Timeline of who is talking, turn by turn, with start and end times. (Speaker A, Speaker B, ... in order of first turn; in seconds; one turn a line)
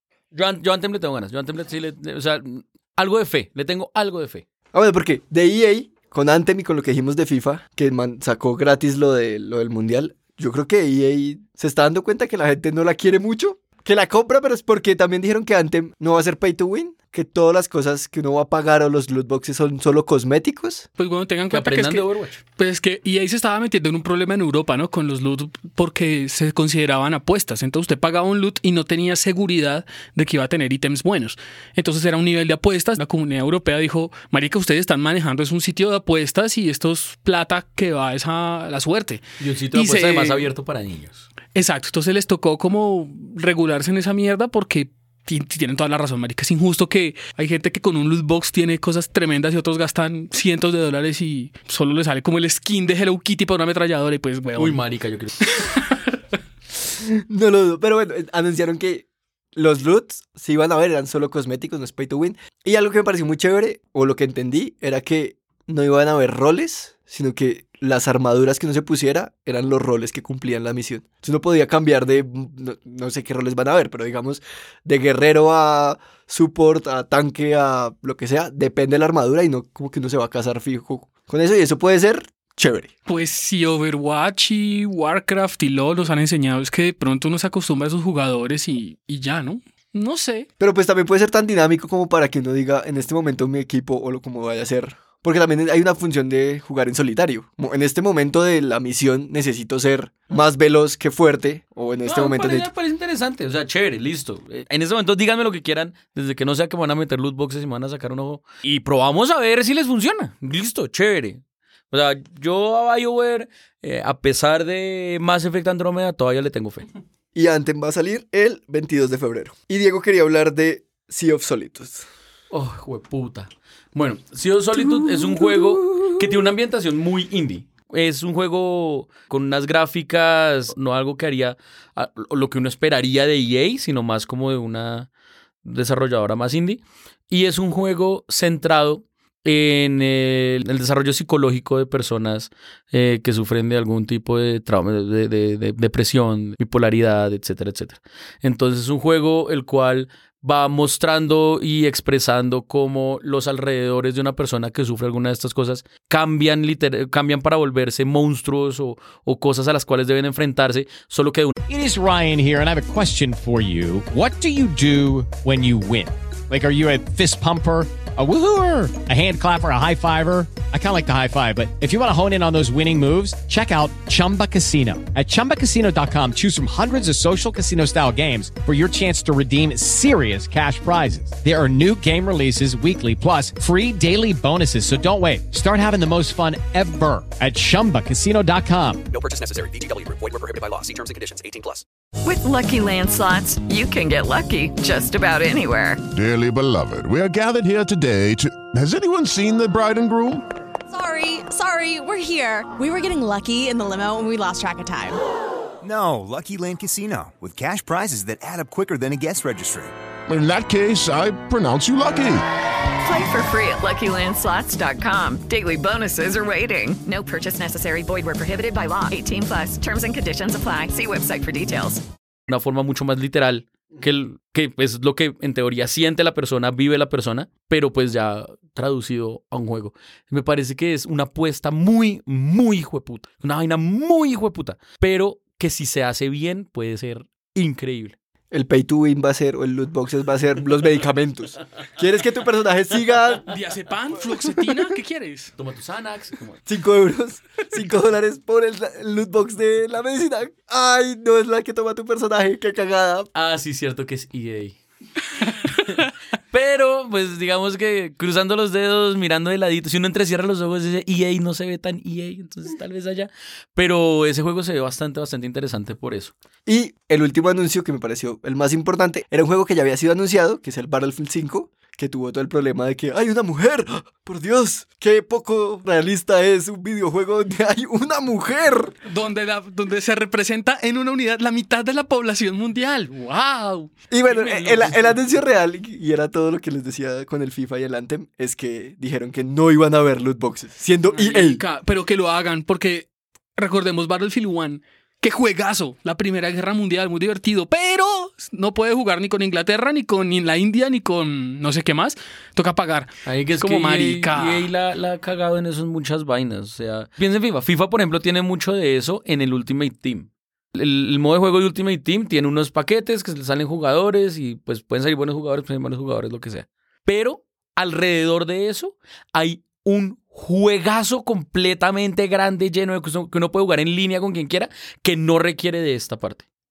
Speaker A: 0.3-4.4
Speaker B: 4.7-20.9
Speaker C: 21.0-22.0
Speaker A: 21.5-22.4
Speaker C: 22.6-40.5
Speaker A: 39.4-41.3
Speaker C: 41.5-54.8
Speaker A: 54.5-55.4
Speaker B: 57.3-82.9
Speaker C: 83.1-90.5
Speaker B: 90.6-102.7
Speaker A: 102.0-116.9
Speaker B: 117.3-122.0
Speaker A: 122.5-135.1
Speaker B: 124.8-126.2
Speaker A: 135.6-161.5
Speaker D: 161.7-189.0
Speaker E: 189.1-191.8
Speaker F: 192.2-196.0
Speaker G: 196.1-200.4
Speaker H: 200.9-205.2
Speaker I: 205.8-209.9
Speaker G: 210.3-212.4
Speaker F: 213.0-222.0
Speaker A: 222.5-238.1
Speaker B: 238.5-243.5
Speaker C: 243.4-245.5
Speaker A: 245.6-246.6
Speaker B: 246.7-253.3
Speaker A: 253.3-254.8
Speaker A: 256.5-266.3
Speaker B: 266.6-278.9
Speaker C: 279.1-285.2
Speaker B: 284.1-291.6
Speaker C: 291.1-304.7
Speaker A: 303.2-326.4